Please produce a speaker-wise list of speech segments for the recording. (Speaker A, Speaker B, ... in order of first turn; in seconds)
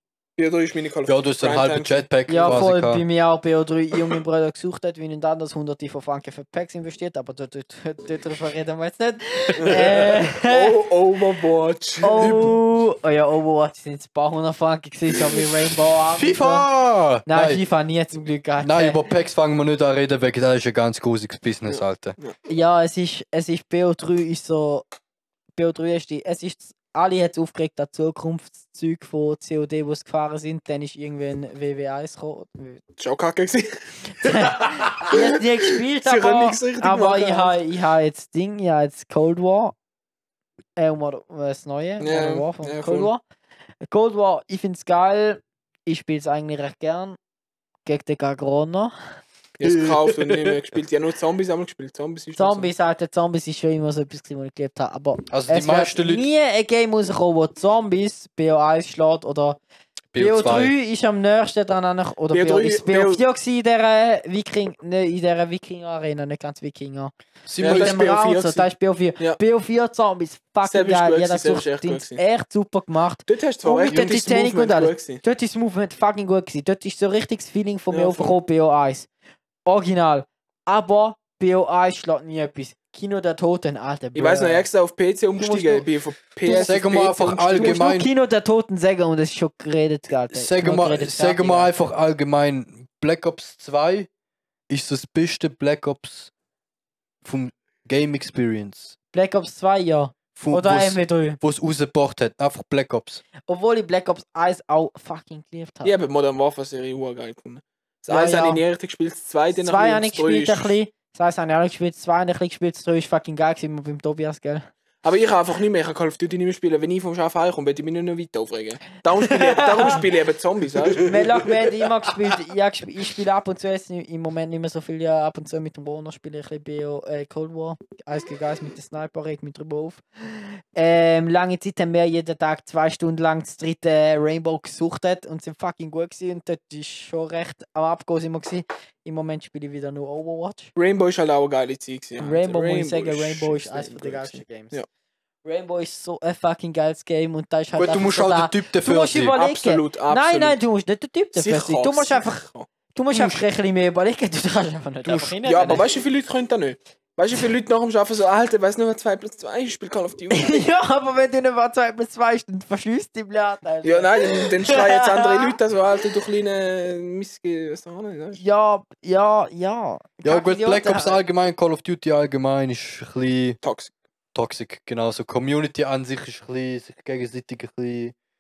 Speaker A: 0.4-2.6, 9.6-12.5, 21.7-22.4, 33.0-33.7, 34.2-37.6, 42.0-43.1, 49.6-52.7, 62.3-63.2, 67.6-69.4, 70.7-72.2, 73.3-75.2, 77.9-78.4, 84.2-87.8, 105.8-110.7, 115.0-121.4, 140.8-144.9, 149.3-150.6, 151.3-152.7, 155.5-160.7, 163.8-168.4, 173.6-173.9
Speaker B: 1.1-3.0, 16.1-17.6, 18.6-22.2, 49.6-50.6, 55.3-56.3, 60.1-60.7, 67.5-68.1, 86.5-88.1, 90.3-94.1, 94.7-96.3, 97.2-99.0, 100.4-103.2, 147.8-149.4, 153.1-153.4, 155.1-155.8, 170.2-173.6, 174.3-178.1
Speaker C: 2.3-10.8, 12.0-16.7, 17.3-19.1, 22.5-24.9, 25.6-32.8, 34.2-39.8, 40.8-43.2, 43.8-47.2, 47.9-48.9, 52.4-59.6, 60.2-79.1, 79.7-84.7, 85.4-85.8, 86.4-86.7, 87.5-91.8, 99.1-101.4, 103.5-106.0, 108.1-108.6, 109.5-114.7, 119.2-120.0, 121.0-140.7, 142.2-144.8, 145.4-155.9, 160.3-165.6, 168.4-171.2